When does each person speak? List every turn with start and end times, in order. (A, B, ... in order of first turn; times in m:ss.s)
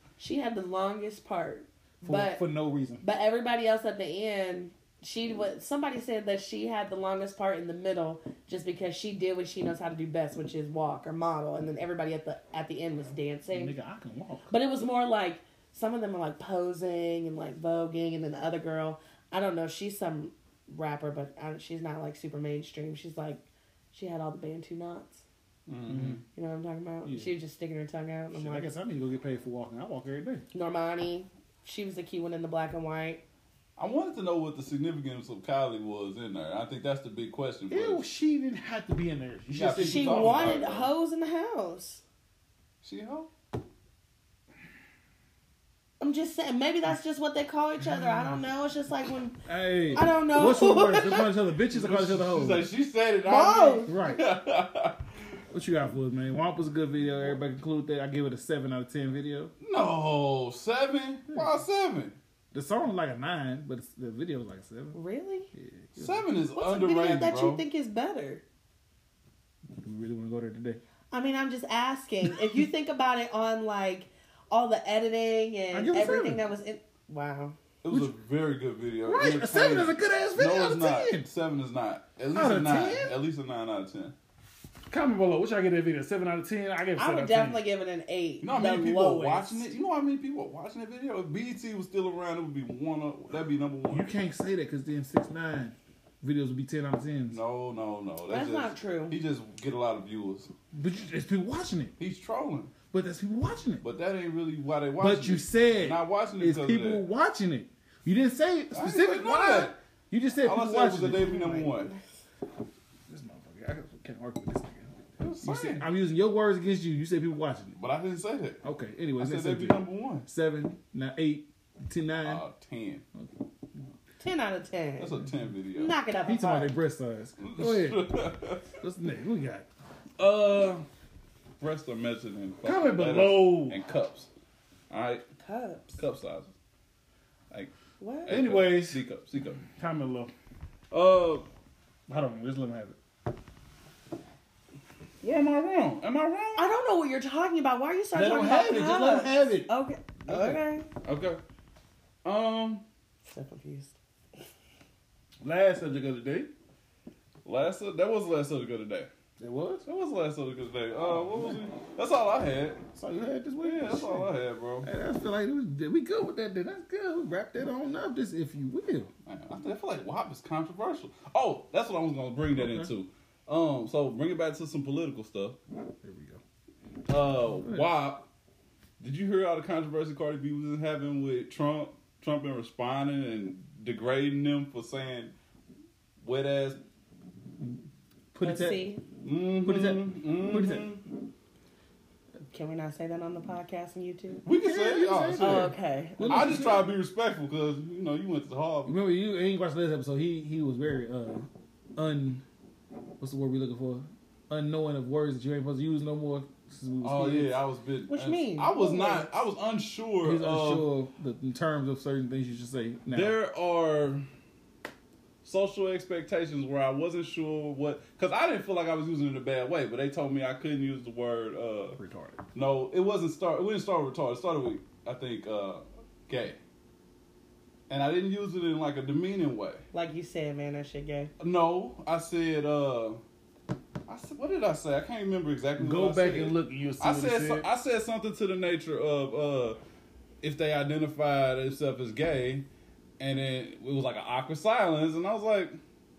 0:00.2-0:02.4 A
0:02.0-0:03.0 B
0:03.0-0:13.8 A
0:13.5-0:14.5 B
0:14.5-0:25.2 A
0:25.7-0:26.2 C
0:25.9-0:26.2 B
0:26.3-0:28.7 A
0:27.0-0:27.3 B
0:28.3-0:30.4 B
0:30.5-0:33.2 A
0:33.8-0:38.0 C
0:37.7-0:40.5 B
0:39.5-0:40.9 C
0:39.8-0:42.0 A
0:42.8-0:43.3 C
0:46.0-0:49.4 A
0:48.0-0:48.4 B
0:49.5-0:52.7 B
0:49.9-0:51.3 A
0:51.7-0:55.0 C
0:53.2-0:54.0 A
0:53.9-0:54.2 B
0:55.5-0:59.5 B
0:59.6-1:02.2 C
1:02.5-1:05.0 B
1:04.9-1:05.5 A
1:05.5-1:06.3 B
1:06.0-1:07.6 C
1:06.6-1:08.4 A
1:09.8-1:10.8 B
1:11.1-1:17.6 A
1:15.7-1:16.4 B
1:17.8-1:24.2 C
1:19.0-1:21.3 B
1:22.3-1:23.1 B
1:24.9-1:27.6 B
1:27.0-1:29.7 A
1:28.4-1:34.1 C
1:33.9-1:37.4 B
1:37.3-1:40.5 C
1:38.3-1:39.2 A
1:40.7-1:41.9 B
1:42.0-1:42.7 C
1:42.9-1:43.8 B
1:43.8-1:47.0 C
1:45.0-1:51.3 B
1:48.7-1:49.7 C
1:50.4-1:51.9 C
1:51.2-1:52.0 A
1:53.1-1:57.8 B
1:55.2-1:55.9 C
1:57.8-1:58.6 C
1:58.6-2:02.4 B
1:59.2-2:00.3 C
2:02.2-2:03.0 C
2:03.2-2:03.9 B
2:04.2-2:05.2 A
2:05.0-2:06.0 C
2:05.8-2:06.7 A
2:06.2-2:08.2 B
2:07.4-2:08.8 C
2:08.8-2:09.7 B
2:10.2-2:10.9 C
2:11.6-2:14.3 C
2:12.6-2:13.8 B
2:14.9-2:15.2 C
2:15.4-2:16.0 A
2:15.9-2:16.5 C
2:18.0-2:18.4 A
2:18.3-2:19.6 C
2:18.3-2:19.0 B
2:19.7-2:20.3 B
2:20.9-2:21.5 C
2:22.1-2:23.0 B
2:25.2-2:26.6 C
2:26.6-2:30.9 A
2:28.1-2:29.7 B
2:30.3-2:30.6 B
2:31.0-2:31.4 C
2:32.2-2:32.8 C
2:33.2-2:34.0 A
2:35.4-2:36.5 B
2:37.4-2:39.1 C
2:39.4-2:39.8 B
2:39.8-2:42.8 C
2:41.2-2:41.6 B
2:42.9-2:44.3 B
2:43.6-2:44.9 C
2:44.8-2:49.1 B
2:49.3-2:55.6 C
2:52.6-2:52.9 B
2:56.0-2:56.4 B
2:57.1-2:58.3 C
2:59.0-3:05.3 C
3:06.2-3:06.8 C
3:08.3-3:08.9 B
3:08.4-3:09.0 A
3:09.2-3:11.0 C
3:09.6-3:10.9 B
3:12.5-3:14.4 A
3:14.4-3:19.0 C
3:14.5-3:16.9 B
3:15.4-3:16.7 A
3:18.9-3:22.4 B
3:23.2-3:27.6 B
3:27.0-3:30.9 C
3:28.1-3:29.4 A
3:30.2-3:33.4 B
3:33.1-3:34.2 C
3:35.4-3:42.0 C
3:42.0-3:42.4 B
3:42.6-3:46.6 C
3:47.9-3:49.8 C
3:49.9-3:51.3 A
3:51.4-3:53.2 C
3:54.1-3:59.8 C
3:55.8-3:57.7 B
4:00.4-4:02.7 C
4:03.2-4:05.8 C